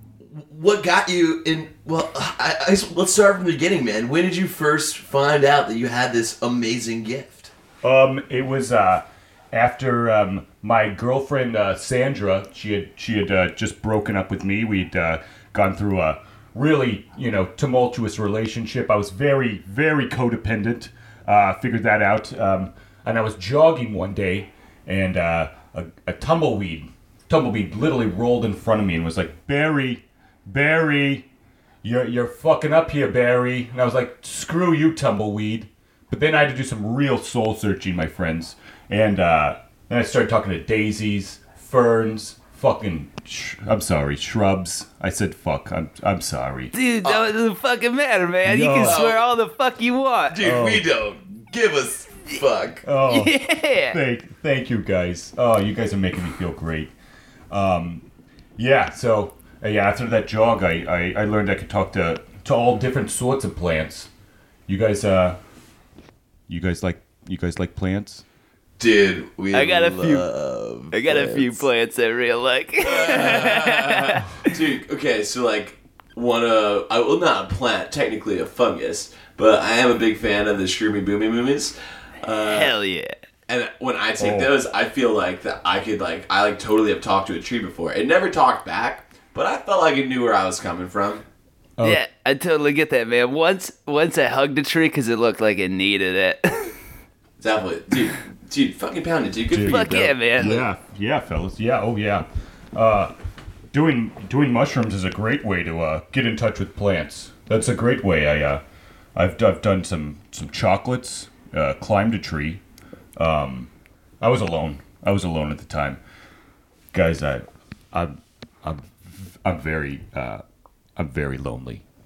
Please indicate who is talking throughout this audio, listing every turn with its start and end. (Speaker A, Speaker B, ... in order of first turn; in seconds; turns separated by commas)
Speaker A: 0.2-7.5, Speaker B: 7.8-31.3, Speaker B: 31.8-46.7, Speaker C: 46.7-50.4, Speaker A: 47.0-47.3, Speaker B: 48.4-49.0, Speaker A: 48.8-49.2, Speaker A: 50.3-52.9, Speaker B: 50.4-50.9, Speaker B: 52.8-56.9, Speaker C: 53.1-54.0, Speaker B: 57.5-58.0, Speaker B: 58.6-64.1, Speaker B: 64.7-65.4, Speaker B: 66.5-68.2, Speaker A: 68.8-71.7, Speaker C: 69.5-70.3, Speaker C: 70.9-74.2, Speaker A: 72.8-82.7, Speaker C: 82.4-83.2, Speaker A: 83.5-91.2, Speaker B: 84.2-84.5, Speaker C: 91.8-96.8, Speaker A: 97.4-100.0, Speaker B: 99.5-103.1, Speaker C: 99.6-100.7, Speaker B: 103.7-108.6, Speaker B: 109.2-112.6, Speaker B: 113.2-116.0, Speaker B: 116.9-120.4, Speaker B: 121.0-121.8